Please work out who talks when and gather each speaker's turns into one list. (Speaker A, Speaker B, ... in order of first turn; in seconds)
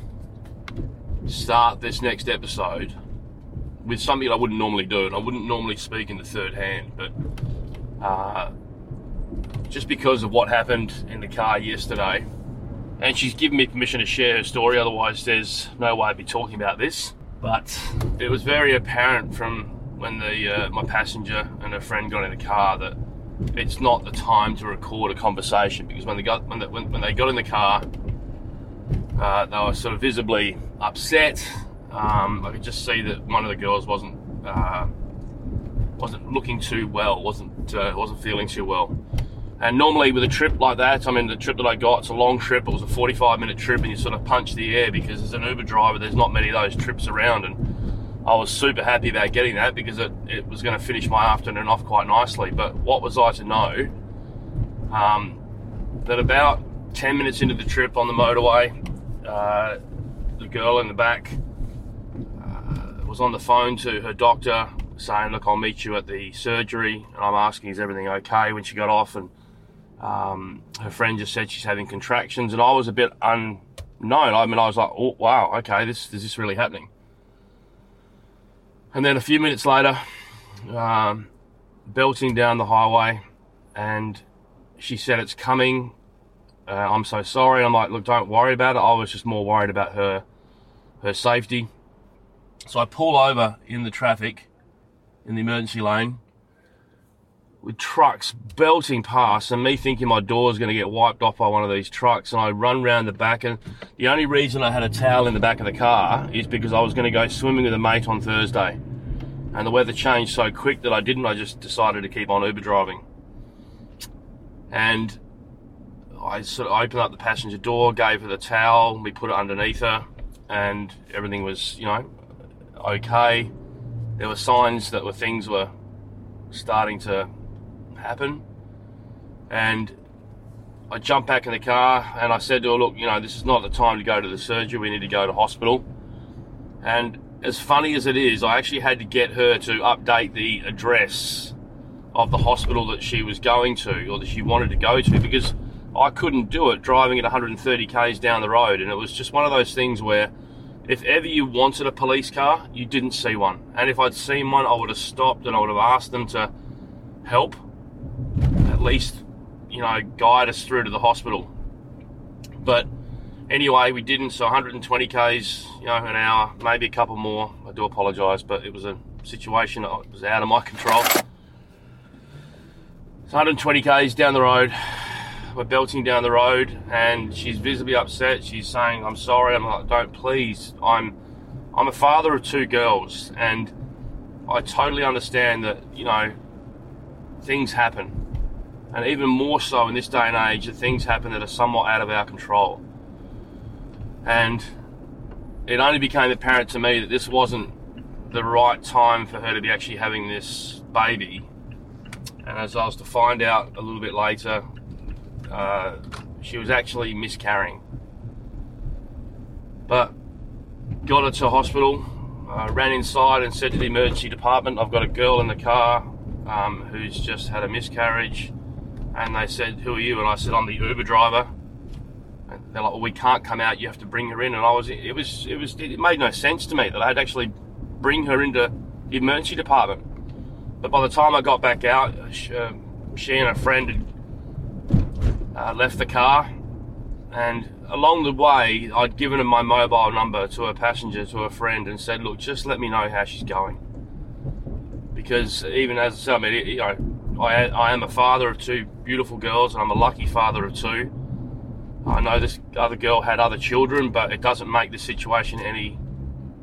Speaker A: 1.3-3.0, 3.8-7.1, 8.0-8.5, 9.7-12.2, 13.0-23.0, 23.5-27.9, 29.2-34.9, 36.0-39.0, 39.6-47.7, 48.2-53.9, 54.9-55.4, 56.0-59.8, 60.4-61.4, 62.4-69.3, 70.0-76.9, 78.9-80.0, 80.7-81.3, 81.9-83.2, 83.8-84.2, 84.8-86.0, 86.7-90.2, 91.0-91.7, 92.7-94.5, 95.2-96.2, 97.6-108.8, 109.5-113.0, 114.7-115.2, 116.2-122.1, 122.8-123.5, 124.2-125.7, 126.5-127.3, 128.0-128.4, 129.5-129.9, 130.9-135.8, 136.8-141.6, 142.1-150.3, 150.9-156.5, 157.2-157.6, 158.6-161.5, 162.6-162.9, 163.5-171.2, 173.3-181.2, 181.7-183.7, 184.5-186.4, 187.4-188.2, 188.9-192.8, 194.2-194.7, 195.7-197.7, 198.3-201.5, 202.4-204.6, 205.5-207.8, 209.9-210.2, 211.0-218.5, 219.1-221.5, 222.5-230.0, 230.8-234.1, 235.5-236.5, 237.3-243.8, 245.1-251.1, 252.1-256.0